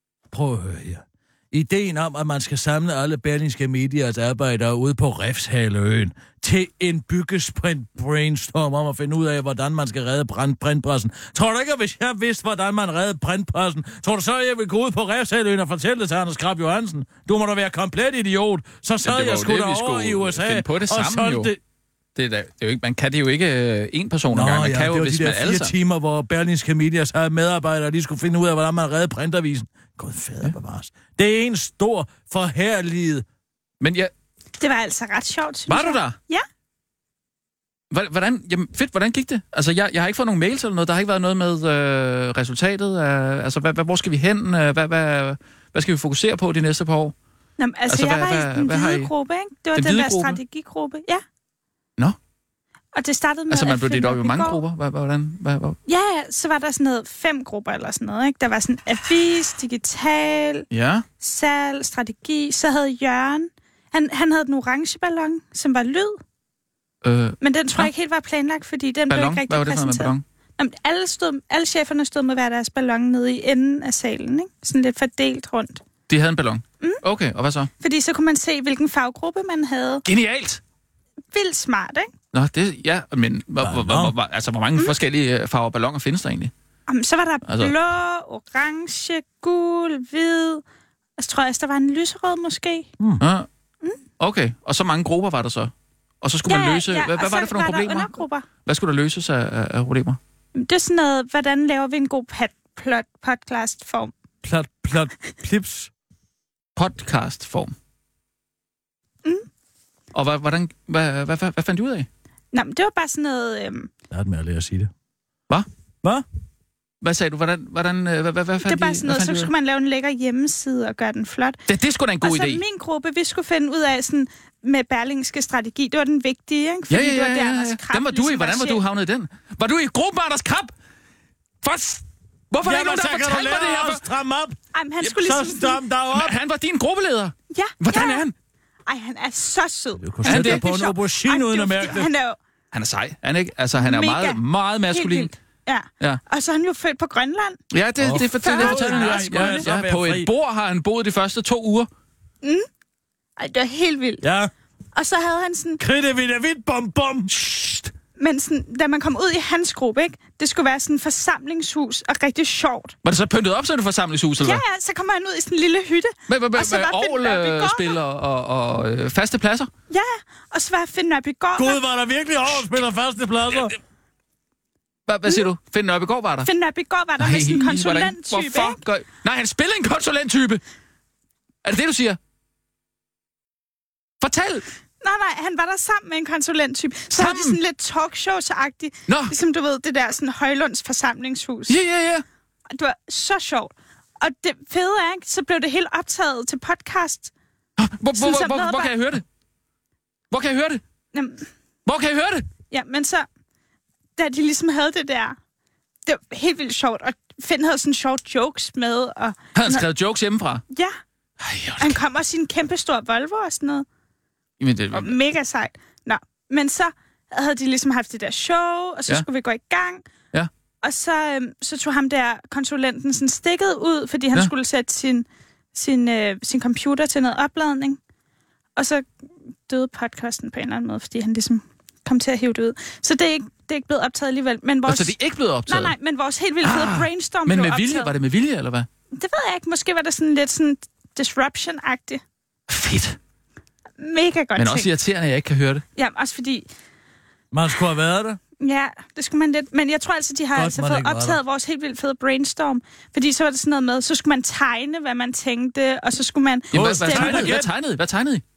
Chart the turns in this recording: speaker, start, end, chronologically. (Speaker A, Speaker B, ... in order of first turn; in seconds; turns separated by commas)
Speaker A: 0.3-21.6, Speaker B: 19.0-21.5, Speaker B: 22.1-25.7, Speaker A: 24.3-33.2, Speaker B: 33.8-34.1, Speaker C: 34.6-36.5, Speaker B: 35.7-36.2, Speaker B: 37.9-47.1, Speaker C: 47.6-51.2, Speaker B: 47.9-49.1, Speaker B: 49.7-50.4, Speaker C: 53.0-54.6, Speaker B: 53.5-55.8, Speaker C: 55.9-60.7, Speaker B: 60.7-61.0, Speaker C: 61.2-66.2, Speaker B: 67.0-67.9, Speaker C: 67.4-75.8, Speaker B: 69.1-70.2, Speaker B: 76.1-77.7, Speaker C: 77.8-80.0, Speaker B: 80.1-80.6, Speaker C: 81.3-82.1, Speaker B: 82.3-86.5, Speaker A: 83.6-84.1, Speaker C: 86.9-90.6, Speaker B: 87.5-87.7, Speaker C: 91.2-92.9, Speaker A: 93.0-93.2, Speaker B: 93.2-93.5, Speaker B: 94.2-95.7, Speaker B: 96.2-100.2, Speaker C: 96.5-98.5, Speaker C: 100.5-104.1, Speaker A: 104.4-105.9, Speaker B: 106.8-107.8, Speaker B: 110.1-112.1, Speaker C: 112.5-113.9, Speaker A: 114.1-114.9, Speaker B: 117.0-119.5, Speaker C: 118.6-121.6, Speaker B: 121.7-122.6, Speaker C: 122.2-128.8, Speaker B: 126.9-130.7, Speaker B: 131.6-134.0, Speaker A: 132.6-136.4, Speaker C: 134.7-135.8, Speaker B: 136.1-138.3, Speaker C: 137.5-138.2, Speaker C: 138.9-142.4, Speaker A: 140.0-142.1, Speaker B: 140.3-140.6, Speaker B: 142.7-145.3, Speaker C: 143.8-147.6, Speaker B: 147.7-151.9, Speaker A: 148.0-150.3, Speaker C: 148.1-149.7, Speaker C: 153.4-154.2, Speaker A: 154.2-154.5, Speaker C: 154.9-155.8, Speaker A: 155.8-157.7, Speaker C: 158.2-163.0, Speaker B: 163.0-164.6, Speaker C: 164.4-168.0, Speaker B: 166.3-169.7, Speaker C: 169.9-171.8, Speaker A: 171.6-173.8, Speaker B: 175.1-176.5, Speaker C: 176.4-178.8, Speaker B: 177.2-180.6, Speaker B: 181.7-182.2, Speaker B: 184.2-184.7, Speaker C: 185.0-191.8, Speaker B: 187.1-187.6, Speaker B: 189.1-189.3, Speaker B: 191.7-192.2, Speaker C: 192.7-197.3, Speaker B: 197.8-199.2, Speaker C: 198.2-198.9, Speaker B: 200.3-200.8, Speaker C: 201.1-201.5, Speaker B: 201.9-202.4, Speaker C: 202.7-203.3, Speaker C: 204.2-205.4, Speaker C: 206.1-209.8, Speaker B: 209.6-210.6, Speaker C: 210.7-211.0, Speaker B: 211.4-212.0, Speaker C: 211.8-213.8, Speaker B: 214.6-215.2, Speaker C: 214.9-220.0, Speaker C: 220.8-228.0, Speaker C: 228.8-229.1, Speaker C: 229.7-235.1, Speaker B: 234.9-235.9, Speaker C: 235.7-238.1, Speaker B: 236.6-238.9, Speaker C: 239.1-242.2, Speaker B: 242.7-243.2, Speaker C: 244.0-244.9, Speaker B: 244.6-245.8, Speaker C: 246.0-246.7, Speaker A: 247.5-248.4, Speaker C: 248.6-257.6, Speaker A: 250.6-251.4, Speaker B: 256.7-258.4, Speaker A: 256.7-257.7